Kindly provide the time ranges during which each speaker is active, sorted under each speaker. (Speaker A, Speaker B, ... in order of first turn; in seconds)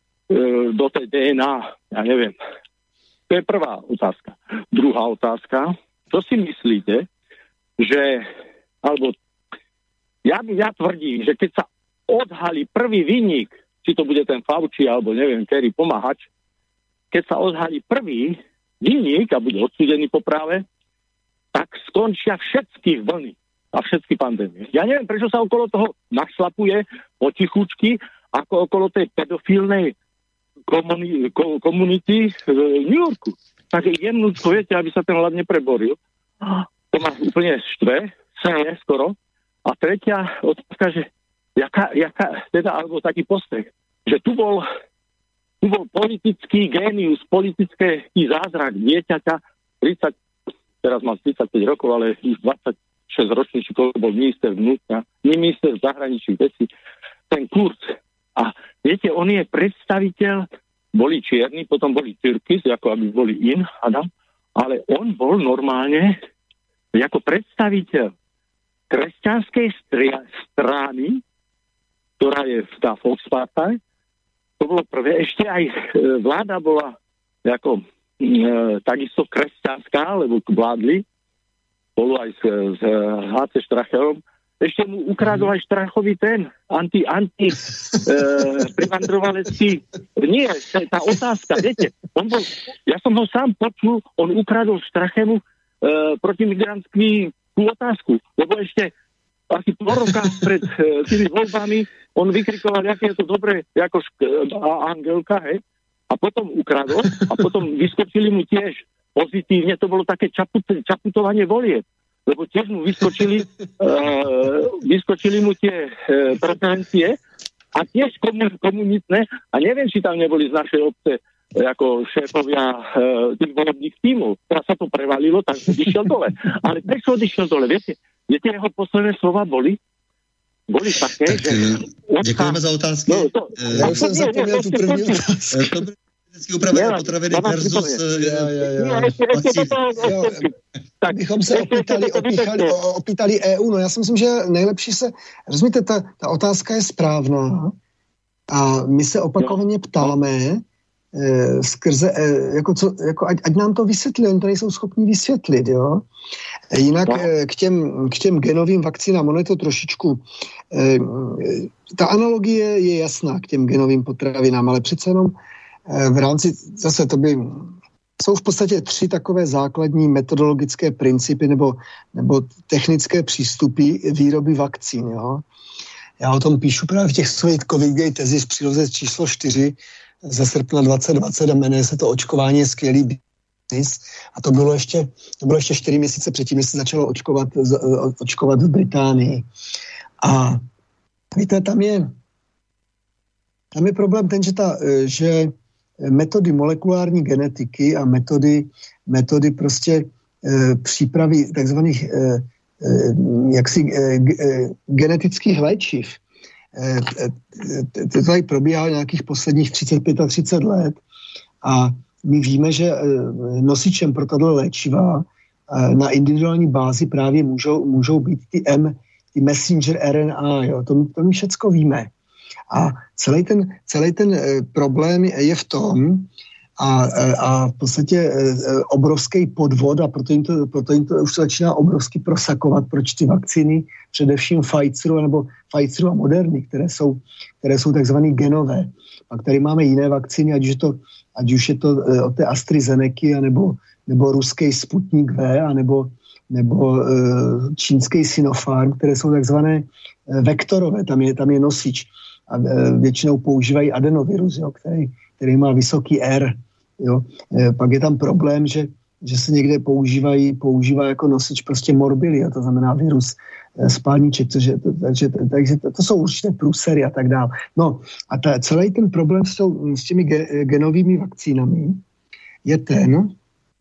Speaker A: 0.3-2.4, 3.3-7.1, 7.8-8.3, 8.8-9.2, 10.2-16.3, 17.1-20.7, 21.5-29.9, 30.7-44.7, 45.6-50.2, 50.8-56.7, 57.3-66.2, 66.9-68.1, 68.9-71.2, 72.2-73.8, 74.6-81.0, 82.0-98.9, 99.5-117.2, 117.8-129.8, 130.7-135.1, 136.7-138.0, 138.8-140.5, 141.0-142.7
Speaker B: 131.2-134.1, 135.5-138.7, 139.3-140.1
Speaker C: 133.7-135.8, 138.1-139.2, 140.0-140.5, 141.1-147.8, 148.5-150.6, 151.1-156.1, 156.7-175.4, 176.2-189.5, 190.2-190.6, 191.3-192.1, 193.7-206.2, 206.8-211.0, 211.6-222.1, 222.7-272.0, 272.6-273.4